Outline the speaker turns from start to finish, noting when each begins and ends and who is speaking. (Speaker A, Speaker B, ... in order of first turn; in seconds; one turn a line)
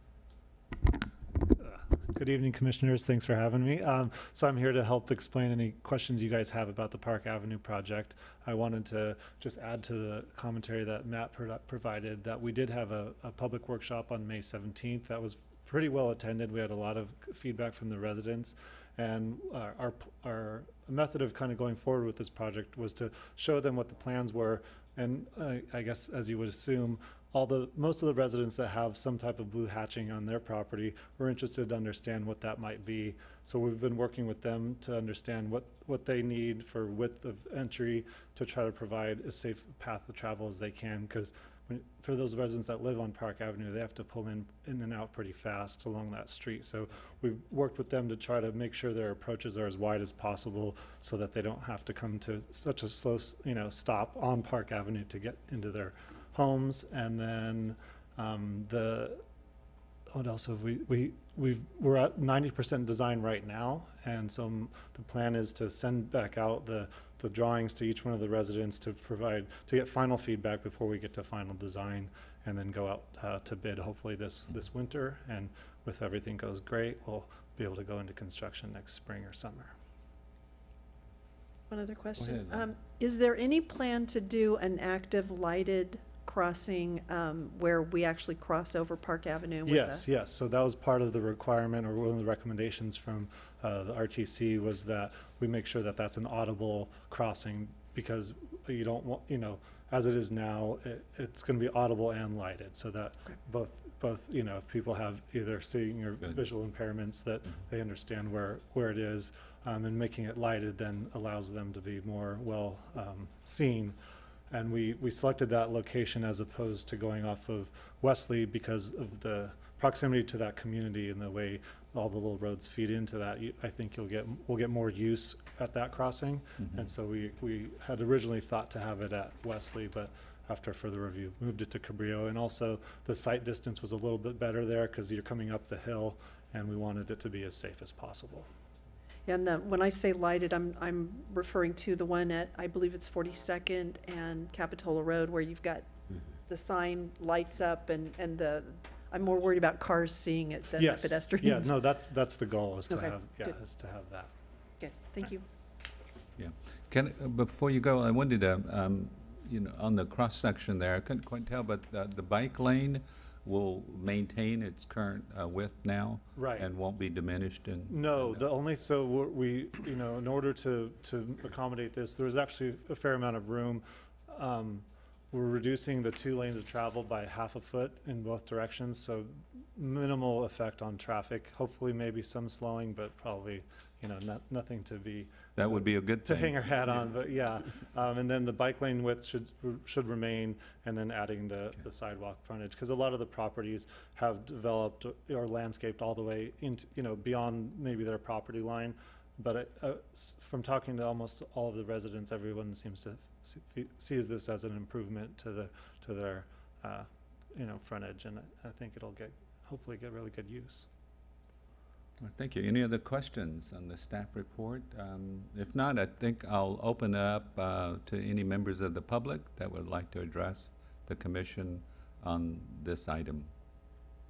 Speaker A: 1.4-59.2
Speaker A: 60.1-79.7
Speaker B: 81.7-90.0
Speaker C: 82.2-82.7
Speaker A: 89.7-114.0
Speaker A: 114.5-138.5
Speaker B: 139.2-145.9
Speaker B: 146.5-151.7
Speaker A: 150.8-154.3
Speaker B: 152.9-153.6
Speaker B: 154.8-155.4
Speaker C: 156.4-168.4
Speaker A: 166.3-166.7
Speaker A: 167.9-210.9
Speaker C: 185.6-187.0
Speaker C: 212.2-223.5